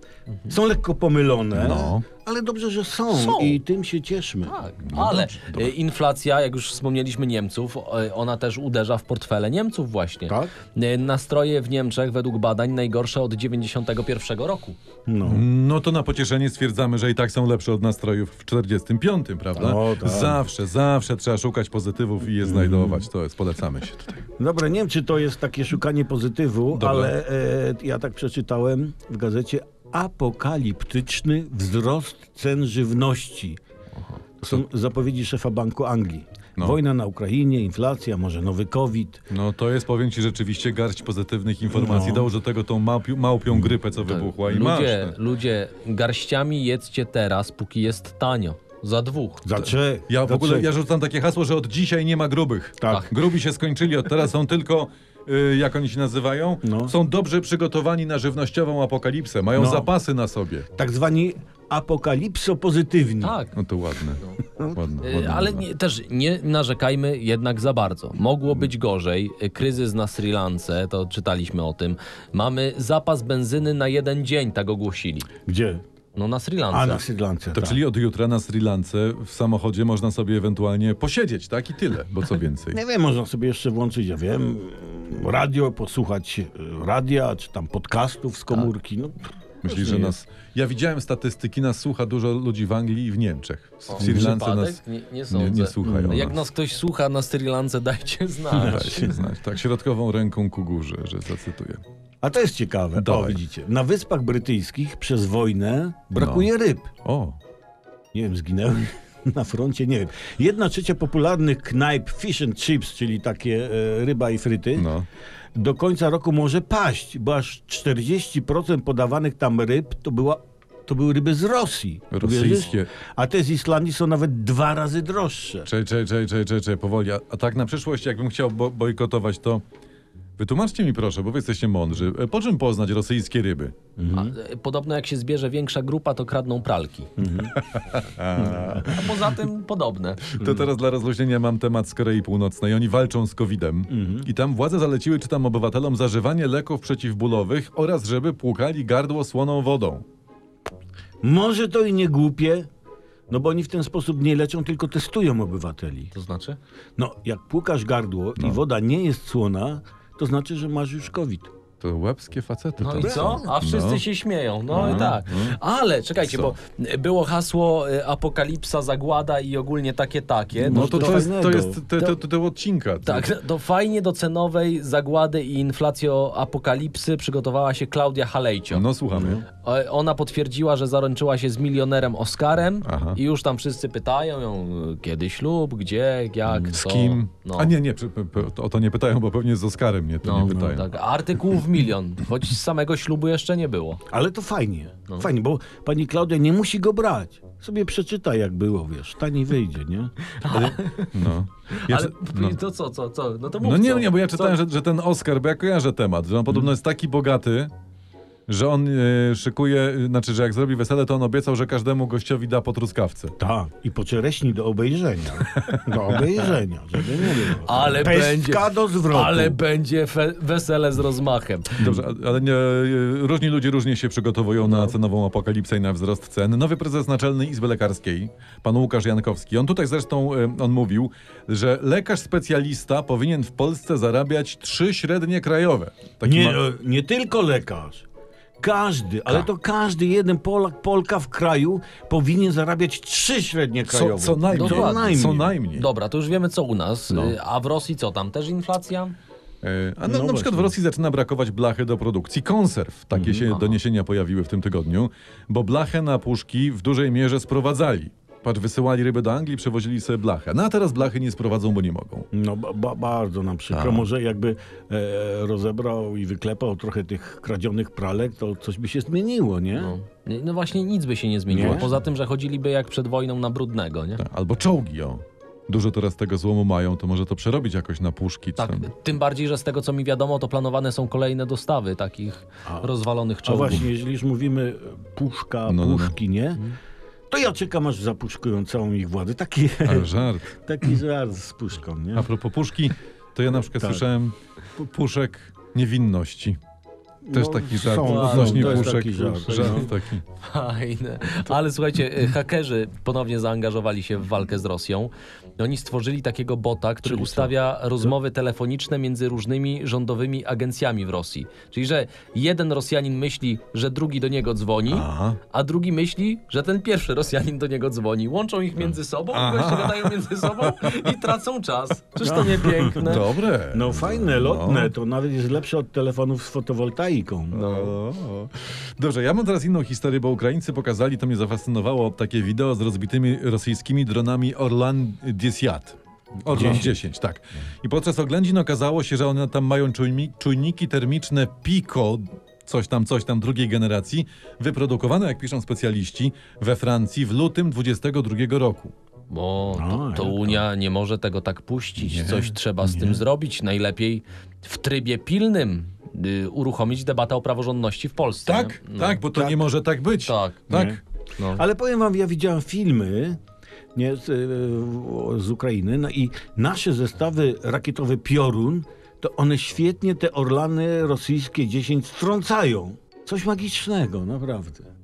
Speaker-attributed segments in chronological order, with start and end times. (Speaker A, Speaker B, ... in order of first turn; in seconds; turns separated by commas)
Speaker A: 0.5-4.5, Speaker B: 1.5-2.0, Speaker C: 3.1-3.6, Speaker C: 4.5-14.8, Speaker B: 4.8-5.7, Speaker A: 10.3-10.5, Speaker A: 15.1-15.4, Speaker B: 15.2-24.2, Speaker A: 19.5-20.4, Speaker A: 22.4-23.1, Speaker A: 24.4-33.6, Speaker B: 26.7-27.1, Speaker A: 34.4-39.2, Speaker B: 39.3-45.1, Speaker A: 41.7-42.3, Speaker C: 44.0-49.5, Speaker A: 49.4-50.7, Speaker B: 50.1-60.7, Speaker A: 52.8-53.1, Speaker A: 56.6-56.9, Speaker A: 59.5-59.9, Speaker A: 60.8-63.4, Speaker C: 63.2-63.5, Speaker B: 63.5-65.6, Speaker A: 64.4-64.8, Speaker C: 65.0-75.3, Speaker A: 75.5-75.8, Speaker C: 76.2-77.0, Speaker A: 76.7-77.8, Speaker B: 77.5-82.8, Speaker A: 82.7-90.2, Speaker B: 89.6-96.4, Speaker C: 93.9-99.2, Speaker A: 94.0-94.3, Speaker A: 95.8-96.3, Speaker A: 98.5-99.2, Speaker B: 98.6-101.8, Speaker A: 102.2-106.9, Speaker B: 103.0-103.4, Speaker B: 106.2-106.5, Speaker B: 107.0-107.4, Speaker A: 108.1-114.9, Speaker B: 114.8-115.0, Speaker A: 115.5-125.7, Speaker B: 122.1-122.9, Speaker B: 125.7-129.6, Speaker B: 130.4-133.8, Speaker A: 134.0-134.3, Speaker C: 134.1-137.1, Speaker A: 137.2-137.5, Speaker B: 137.5-139.2, Speaker A: 138.3-138.9, Speaker C: 138.8-140.4, Speaker B: 140.2-150.0, Speaker A: 140.4-140.7, Speaker A: 143.9-144.3, Speaker A: 151.2-152.7, Speaker A: 153.3-156.1, Speaker C: 156.1-156.6, Speaker A: 157.0-161.5, Speaker B: 161.8-164.0, Speaker C: 162.8-171.3, Speaker A: 163.0-163.5, Speaker A: 164.7-165.2, Speaker B: 164.7-165.6, Speaker B: 166.2-166.5, Speaker A: 170.6-171.8, Speaker B: 170.6-173.3, Speaker C: 173.0-178.8, Speaker B: 178.7-179.4, Speaker A: 179.1-179.4, Speaker C: 179.5-187.7, Speaker B: 182.8-183.2, Speaker B: 186.6-190.9, Speaker C: 190.2-194.0, Speaker A: 190.4-190.8, Speaker A: 194.1-200.1, Speaker C: 200.3-201.2, Speaker B: 200.5-202.6, Speaker C: 201.7-204.6, Speaker B: 203.6-207.7, Speaker B: 208.5-213.3, Speaker A: 213.4-219.6, Speaker B: 215.5-216.4, Speaker C: 217.6-221.8, Speaker B: 221.8-236.6, Speaker A: 236.2-238.1, Speaker A: 238.6-245.6, Speaker B: 243.9-245.9, Speaker C: 244.5-249.2, Speaker B: 247.1-247.3, Speaker B: 249.6-262.3, Speaker A: 250.0-250.7, Speaker A: 253.1-253.5, Speaker C: 253.5-253.8, Speaker A: 262.3-269.9, Speaker B: 263.7-264.1, Speaker C: 269.8-274.2, Speaker A: 271.5-271.9, Speaker B: 271.5-271.9, Speaker B: 274.2-278.9, Speaker C: 278.6-283.9, Speaker A: 283.4-286.7, Speaker B: 285.7-286.1, Speaker A: 287.3-292.3, Speaker B: 289.8-290.5, Speaker B: 292.1-296.6, Speaker A: 293.8-294.0, Speaker A: 297.2-299.9, Speaker B: 297.3-300.2, Speaker C: 298.0-299.0, Speaker C: 299.5-299.9, Speaker C: 300.4-323.3, Speaker A: 307.1-307.5, Speaker B: 314.9-315.4, Speaker B: 318.8-321.2, Speaker A: 322.2-327.8, Speaker B: 323.0-324.9, Speaker B: 327.5-348.9, Speaker C: 327.5-327.9, Speaker A: 336.5-336.9, Speaker C: 349.3-359.2, Speaker A: 349.7-350.6, Speaker B: 352.0-352.6, Speaker B: 358.4-361.0, Speaker A: 359.3-359.6, Speaker C: 360.2-360.6, Speaker A: 360.7-361.0, Speaker C: 361.4-361.6, Speaker A: 361.5-363.4, Speaker A: 363.9-374.9